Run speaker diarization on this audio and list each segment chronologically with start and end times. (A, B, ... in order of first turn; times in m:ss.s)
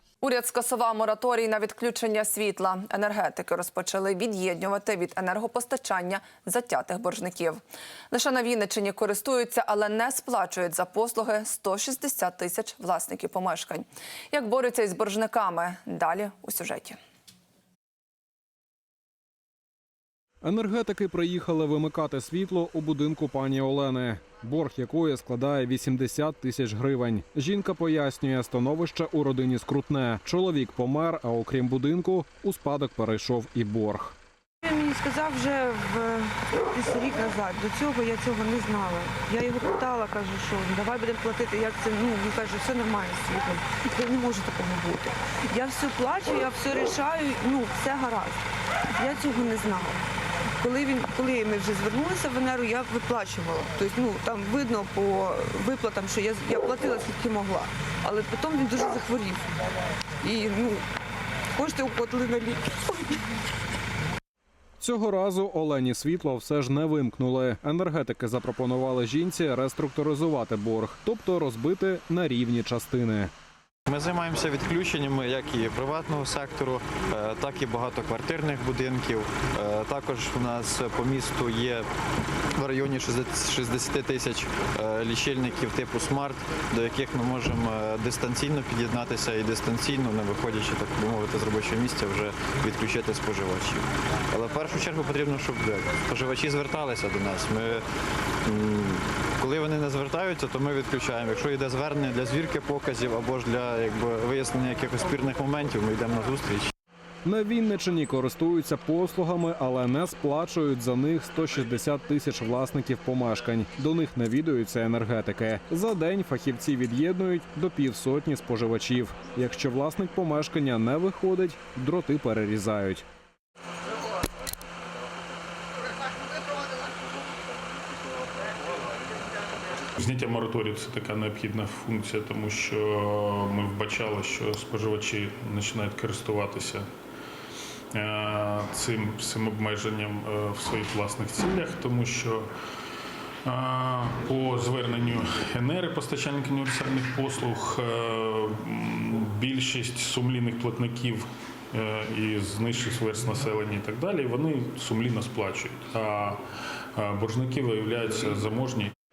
0:00.2-0:17.0 A
0:20.4-0:34.2 B
0:34.6-0:48.4 C
0:49.0-0:50.0 C
0:50.6-0:59.5 C
1:00.2-1:00.8 C
1:01.5-1:03.2 C
1:04.8-1:13.3 B
1:13.9-1:21.9 D
1:22.5-1:37.8 D
1:38.4-1:46.7 D
1:47.2-2:03.0 B
2:10.0-2:16.9 E
2:17.9-2:22.5 E
2:23.4-2:36.4 E
2:37.0-2:38.9 E